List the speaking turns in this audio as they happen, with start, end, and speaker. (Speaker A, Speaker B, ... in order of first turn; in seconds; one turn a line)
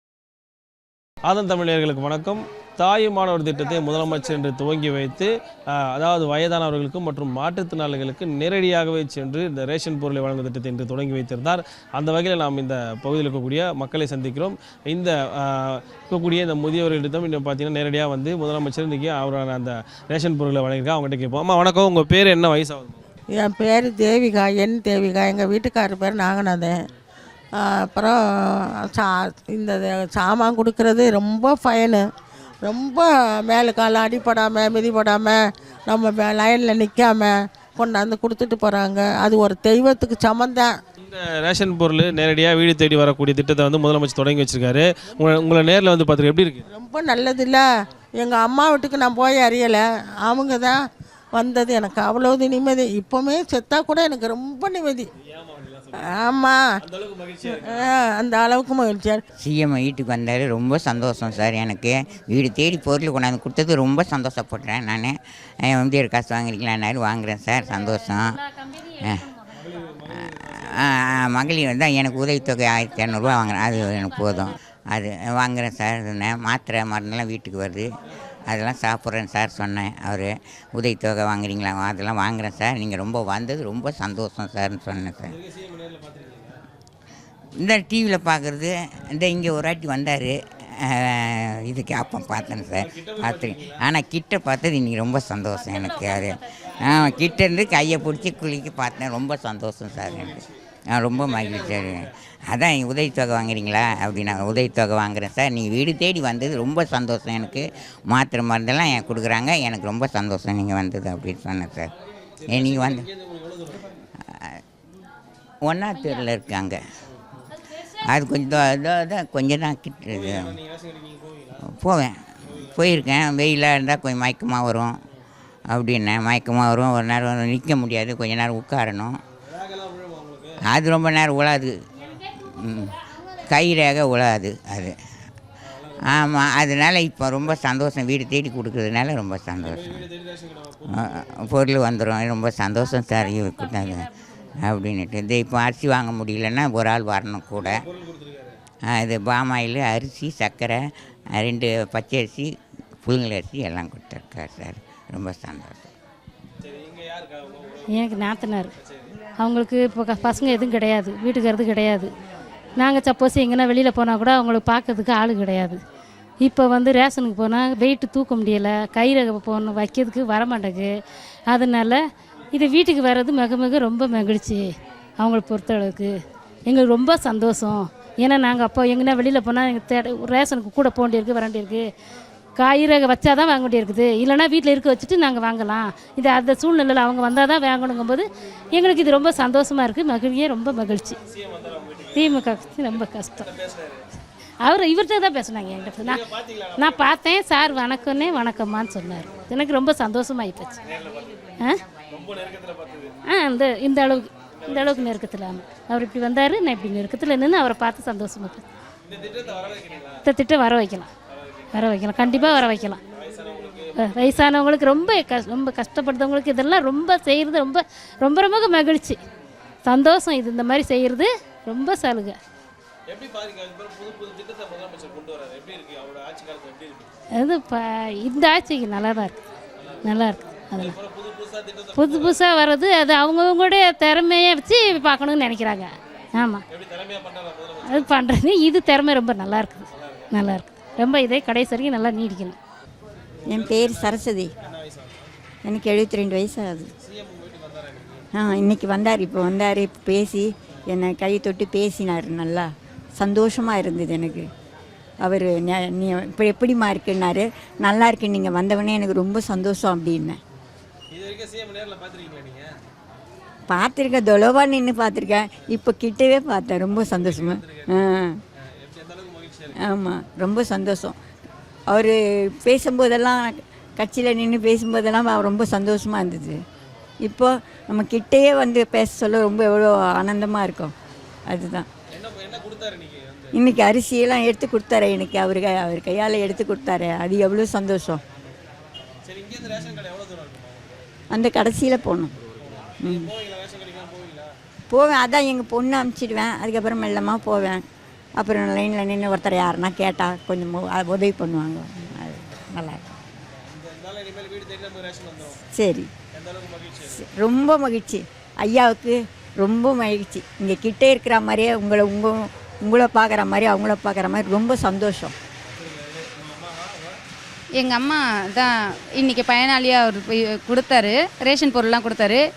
Speaker A: 1.3-5.3
Speaker A: 6.0-23.0
Speaker B: 23.3-26.8
Speaker B: 27.6-28.2
Speaker B: 28.8-32.0
Speaker B: 32.6-40.7
Speaker A: 41.0-46.7
Speaker B: 46.7-47.6
Speaker B: 48.2-50.8
Speaker B: 51.3-55.1
Speaker A: 55.2-56.2
Speaker B: 56.0-56.8
Speaker A: 56.8-58.0
Speaker B: 57.5-59.2
Speaker C: 59.4-68.4
Speaker C: 69.0-69.3
Speaker C: 70.3-77.9
Speaker C: 78.5-85.3
Speaker A: 85.3-86.6
Speaker C: 87.6-111.9
Speaker A: 92.8-93.8
Speaker A: 100.1-100.5
Speaker A: 101.2-102.1
Speaker A: 112.4-113.9
Speaker C: 112.5-113.1
Speaker C: 114.2-114.6
Speaker C: 115.6-116.8
Speaker C: 118.1-120.6
Speaker A: 120.1-121.6
Speaker C: 121.7-124.9
Speaker A: 122.5-122.7
Speaker C: 125.7-129.2
Speaker A: 129.4-130.6
Speaker C: 130.7-131.7
Speaker C: 132.4-134.9
Speaker A: 135.7-136.3
Speaker C: 136.1-140.0
Speaker A: 139.6-141.5
Speaker C: 141.0-144.1
Speaker C: 144.6-147.8
Speaker A: 147.6-148.6
Speaker C: 148.9-150.8
Speaker C: 151.3-152.5
Speaker C: 153.0-155.9
Speaker A: 156.6-159.1
Speaker D: 157.9-158.7
Speaker D: 159.4-162.1
Speaker D: 162.8-165.8
Speaker D: 166.4-170.9
Speaker D: 171.5-172.0
Speaker D: 172.5-174.7
Speaker D: 175.2-181.9
Speaker D: 182.6-191.2
Speaker A: 191.3-194.0
Speaker D: 192.1-193.5
Speaker D: 194.6-196.2
Speaker A: 196.0-197.0
Speaker D: 196.8-200.8
Speaker A: 200.9-201.3
Speaker A: 202.1-203.2
Speaker D: 203.3-208.7
Speaker A: 204.5-205.2
Speaker A: 209.0-210.2
Speaker D: 210.2-211.1
Speaker A: 211.3-214.4
Speaker D: 211.7-213.0
Speaker D: 214.0-219.2
Speaker D: 219.8-222.4
Speaker A: 223.1-227.1
Speaker D: 227.3-229.4
Speaker A: 229.8-230.0
Speaker D: 230.0-230.9
Speaker A: 230.8-232.3
Speaker D: 231.9-236.6
Speaker A: 236.7-238.1
Speaker D: 237.8-242.6
Speaker A: 239.9-240.3
Speaker A: 243.5-245.3
Speaker E: 243.5-244.5
Speaker E: 245.7-246.9
Speaker A: 247.0-248.3
Speaker E: 248.3-252.7
Speaker E: 253.2-254.5
Speaker E: 255.2-260.4
Speaker A: 261.1-262.8
Speaker E: 263.7-268.3
Speaker A: 267.0-268.0
Speaker A: 268.8-269.7
Speaker E: 269.8-271.1
Speaker E: 271.9-276.6
Speaker E: 277.2-280.9
Speaker E: 281.5-281.9
Speaker A: 282.1-283.6
Speaker E: 283.6-288.2
Speaker A: 289.2-291.0
Speaker E: 291.3-292.4
Speaker A: 292.6-294.5
Speaker E: 294.9-297.8
Speaker E: 298.4-303.0
Speaker A: 303.6-305.6
Speaker E: 305.8-306.1
Speaker A: 306.3-307.2
Speaker E: 307.2-315.3
Speaker A: 315.7-317.2
Speaker F: 317.8-322.4